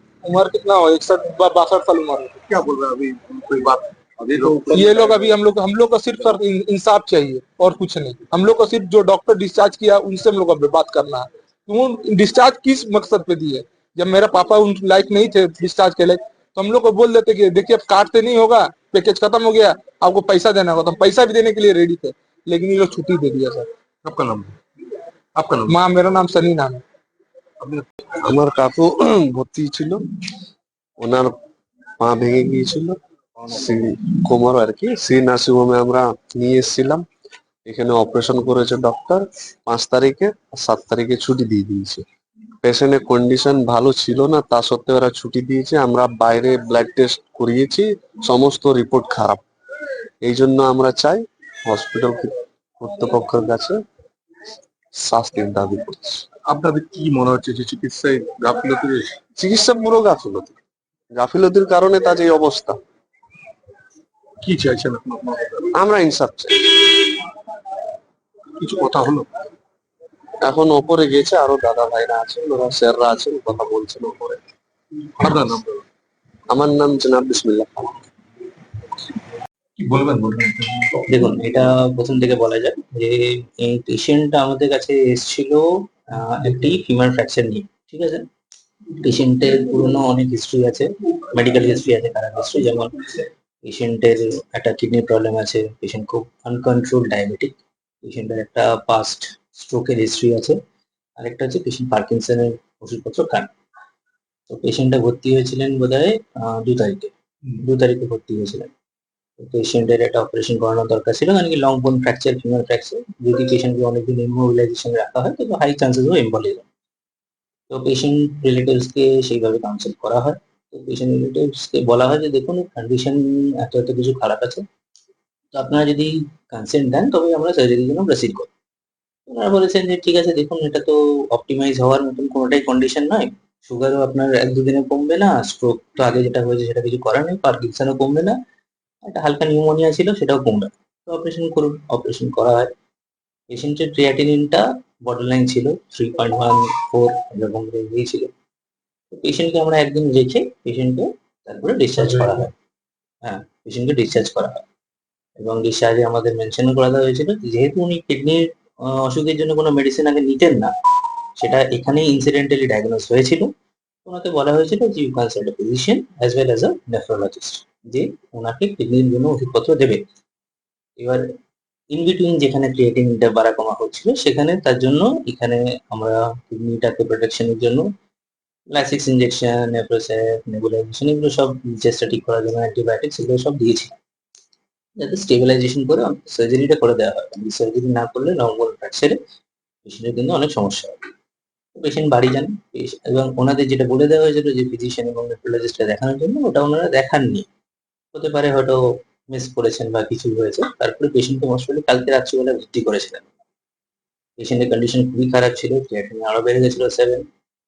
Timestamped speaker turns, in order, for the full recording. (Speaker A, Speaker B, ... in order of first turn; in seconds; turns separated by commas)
Speaker A: 0.2-2.4, Speaker B: 2.5-5.2, Speaker A: 4.7-23.7, Speaker B: 24.0-24.6, Speaker B: 25.4-25.8, Speaker A: 25.7-26.8, Speaker B: 27.6-27.9, Speaker C: 28.2-30.0, Speaker C: 31.0-31.3, Speaker C: 32.0-37.0, Speaker C: 37.6-42.0, Speaker C: 42.6-49.4, Speaker C: 50.2-53.8, Speaker C: 54.9-56.3, Speaker B: 56.5-59.1, Speaker C: 59.4-60.6, Speaker C: 61.1-62.8, Speaker B: 64.4-65.7, Speaker C: 65.7-67.1, Speaker B: 68.6-69.3, Speaker C: 70.4-74.4, Speaker C: 75.2-75.6, Speaker C: 76.5-78.0, Speaker B: 79.8-81.0, Speaker D: 81.1-88.2, Speaker D: 89.0-93.0, Speaker D: 93.7-100.6, Speaker D: 101.2-103.5, Speaker D: 104.5-108.7, Speaker D: 109.4-116.7, Speaker D: 117.7-124.6, Speaker D: 125.5-128.5, Speaker D: 129.3-138.4, Speaker D: 139.1-142.7, Speaker D: 143.5-148.3, Speaker D: 149.1-152.5, Speaker D: 153.2-154.6, Speaker D: 155.4-160.7, Speaker D: 161.4-163.5, Speaker D: 164.1-170.0, Speaker D: 171.9-177.8, Speaker D: 178.7-184.0, Speaker D: 185.0-189.2, Speaker D: 189.9-191.1, Speaker D: 191.8-197.5, Speaker D: 198.1-203.3, Speaker D: 204.4-207.2